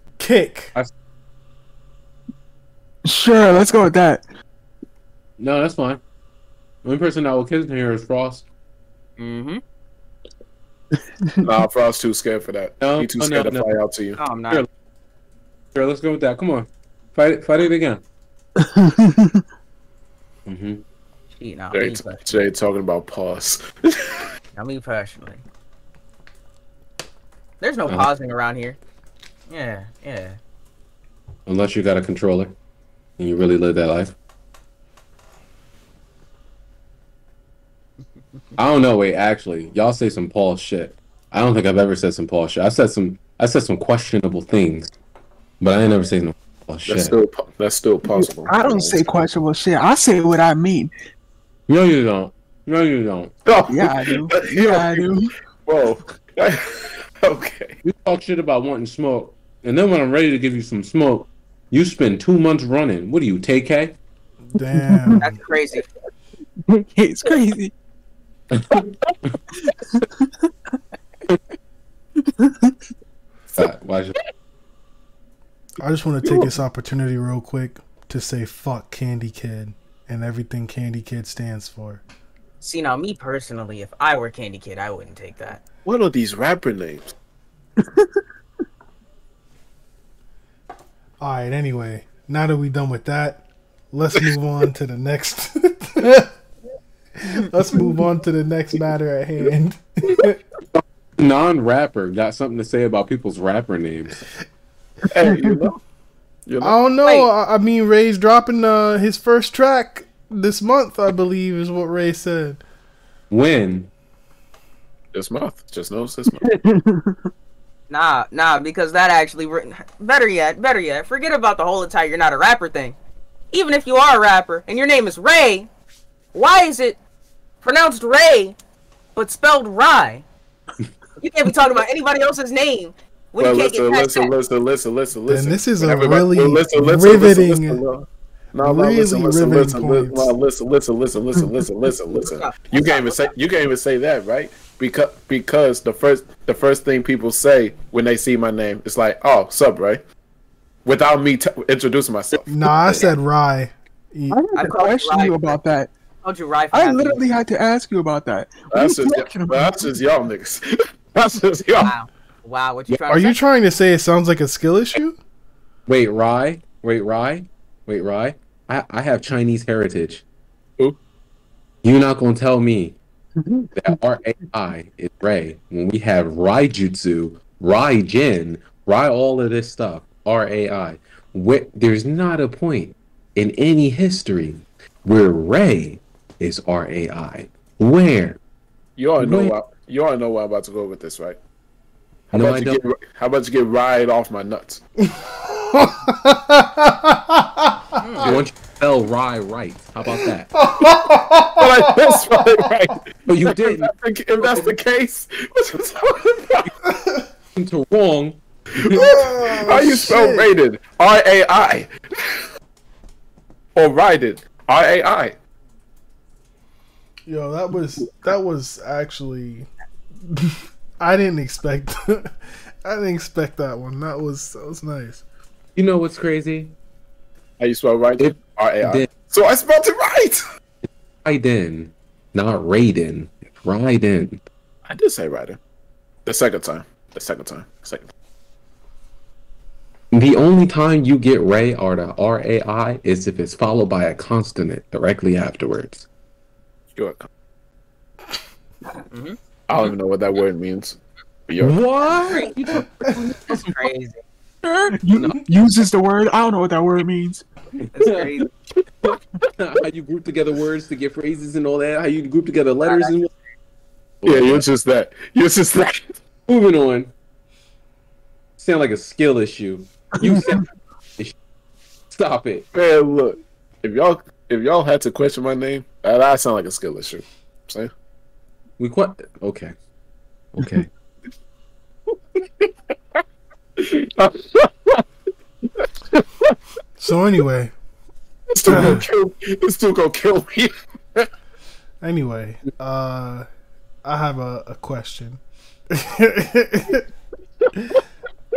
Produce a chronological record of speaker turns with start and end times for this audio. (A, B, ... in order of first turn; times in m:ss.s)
0:00.2-0:00.7 A
0:03.0-0:04.2 B
0:05.4-0:06.0 C
0:06.8-0:08.4 C
0:09.2-0:09.6 D
0:11.4-0:14.2 E
0:12.8-0:13.7 C
0:14.2-0:14.6 D
0:15.7-0:18.0 C
0:18.6-0:19.4 B
0:20.4-0:20.8 C
0:21.4-0:22.4 D
0:21.7-0:24.3 E
0:24.6-0:25.4 D
0:27.6-0:28.8 D
0:29.5-0:30.4 D
0:31.4-0:32.5 C
0:33.2-0:34.1 C
0:38.6-0:44.9 C
0:45.6-0:47.2 C
0:46.9-0:49.1 E
0:48.1-0:50.9 B
0:51.7-0:53.3 C
0:53.4-0:55.1 E
0:53.7-0:55.3 B
0:55.6-0:57.7 E
0:57.8-1:04.0 C
1:04.5-1:05.3 A
1:04.8-1:05.2 B
1:05.2-1:05.8 D
1:06.7-1:07.7 B
1:08.5-1:08.8 C
1:10.0-1:10.3 B
1:12.4-1:12.7 B
1:13.5-1:14.2 C
1:15.8-1:22.0 A
1:22.6-1:25.6 D
1:25.8-1:27.1 E
1:27.8-1:28.1 B
1:31.2-1:36.3 A
1:37.2-1:40.4 A
1:40.7-1:44.2 C
1:45.1-1:45.8 E
1:45.2-1:45.6 B
1:46.5-1:46.8 E
1:46.6-1:52.6 A
1:53.3-1:53.9 C
1:55.1-1:56.4 E
1:56.3-1:57.2 B
1:57.9-2:03.0 D
2:03.5-2:05.7 D
2:06.3-2:07.0 D
2:07.6-2:08.6 D
2:09.2-2:10.2 D
2:11.2-2:14.3 D
2:13.4-2:30.0 E
2:15.3-2:17.8 A
2:18.6-2:20.3 A
2:22.3-2:23.3 D
2:30.8-2:33.1 E
2:32.5-2:34.4 A
2:34.3-2:35.9 B
2:34.5-2:35.6 D
2:36.2-2:37.3 D
2:36.7-2:39.8 B
2:38.7-2:41.9 E
2:41.8-2:43.4 D
2:42.9-2:45.2 A
2:45.8-2:50.2 C
2:51.8-2:53.0 C
2:53.8-3:08.4 C
3:09.0-3:11.4 E
3:09.2-3:09.5 C
3:12.3-3:14.8 E
3:12.3-3:12.8 C
3:15.1-3:18.2 A
3:18.0-3:18.2 D
3:18.2-3:20.5 C
3:20.5-3:22.6 A
3:21.6-3:26.7 E
3:23.2-3:24.7 C
3:26.9-3:27.2 A
3:27.5-3:29.1 C
3:28.8-3:32.4 E
3:28.9-3:30.5 A
3:33.7-3:35.4 E
3:37.3-3:39.7 A
3:40.2-3:45.2 A
3:45.7-3:46.7 C
3:47.6-3:50.4 E
3:48.2-3:49.1 C
3:51.2-3:54.4 C
3:54.8-3:55.6 E
3:56.2-3:58.1 E
4:00.1-4:06.1 C
4:06.9-4:07.3 E
4:09.1-4:09.4 D
4:09.7-4:11.8 E
4:11.6-4:12.8 C
4:12.1-4:14.2 D
4:14.6-4:17.4 B
4:17.9-4:18.5 D
4:18.0-4:23.3 C
4:22.8-4:23.1 D
4:24.2-4:24.6 C
4:24.2-4:26.2 E
4:26.5-4:27.1 C
4:28.6-4:30.6 C
4:32.1-4:32.6 C
4:32.7-4:37.9 E
4:38.8-4:39.7 C
4:40.5-4:40.9 C
4:42.4-4:42.7 E
4:43.8-4:45.0 E
4:45.8-4:46.5 E
4:47.0-4:47.7 A
4:48.5-4:51.3 E
4:48.7-4:49.0 A
4:52.0-4:53.5 A
4:54.0-4:57.0 A